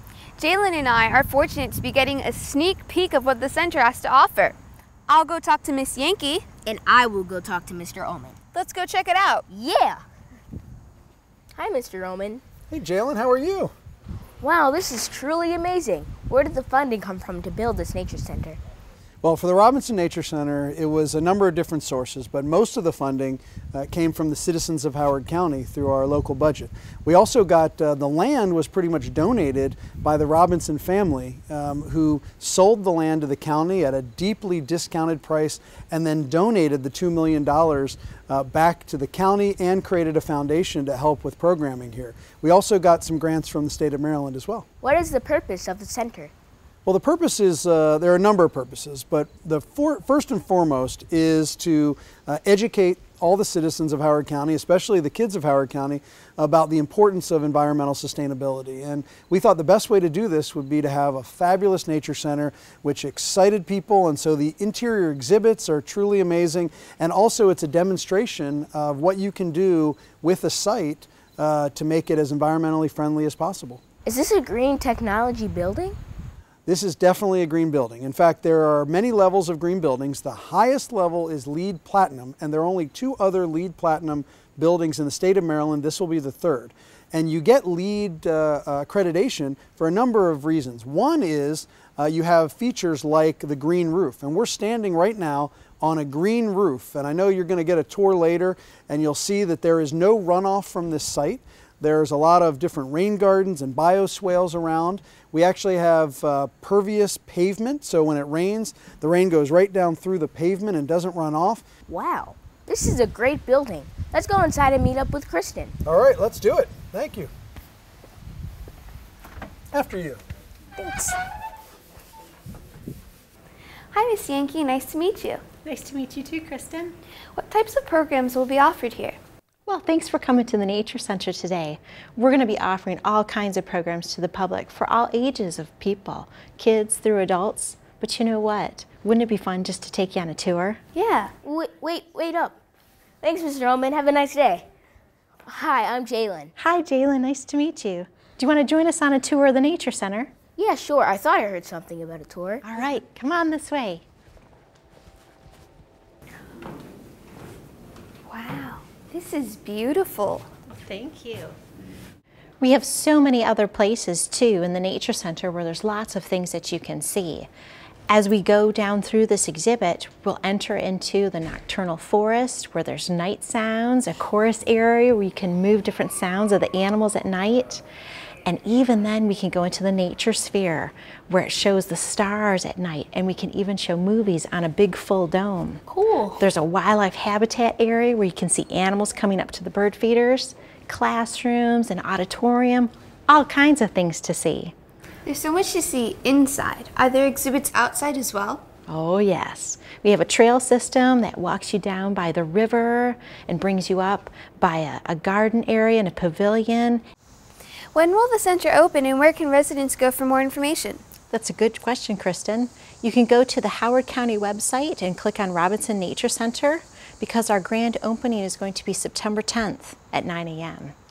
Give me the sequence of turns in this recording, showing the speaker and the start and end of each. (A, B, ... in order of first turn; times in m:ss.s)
0:00.4-0:04.6 A
0:05.1-0:06.4 A
0:06.6-0:08.4 B
0:08.5-0:09.4 A
0:09.5-0:10.0 B
0:11.6-0:12.4 B
0:12.7-0:13.7 C
0:14.4-0:18.6 B
0:19.2-0:44.6 C
0:44.8-0:46.3 B
0:46.8-1:13.8 C
1:14.0-1:16.0 B
1:16.6-1:51.6 C
1:51.9-1:55.7 B
1:55.8-1:57.3 C
1:59.7-2:00.2 C
2:00.8-2:01.2 B
2:03.9-2:05.4 A
2:05.6-2:06.9 D
2:07.3-2:09.2 A
2:09.6-2:20.8 D
2:20.9-2:21.3 A
2:21.4-2:22.6 B
2:23.2-2:24.6 B
2:25.4-2:26.5 B
2:26.6-2:30.3 D
2:30.6-2:32.6 B
2:32.6-2:34.0 D
2:38.3-2:40.5 A
2:40.7-2:41.5 D
2:42.6-2:47.5 D
2:48.1-2:57.8 D
2:58.4-3:05.8 D
3:06.4-3:14.7 D
3:15.2-3:18.6 A
3:18.9-3:27.0 D
3:27.9-3:31.0 A
3:31.3-3:40.9 D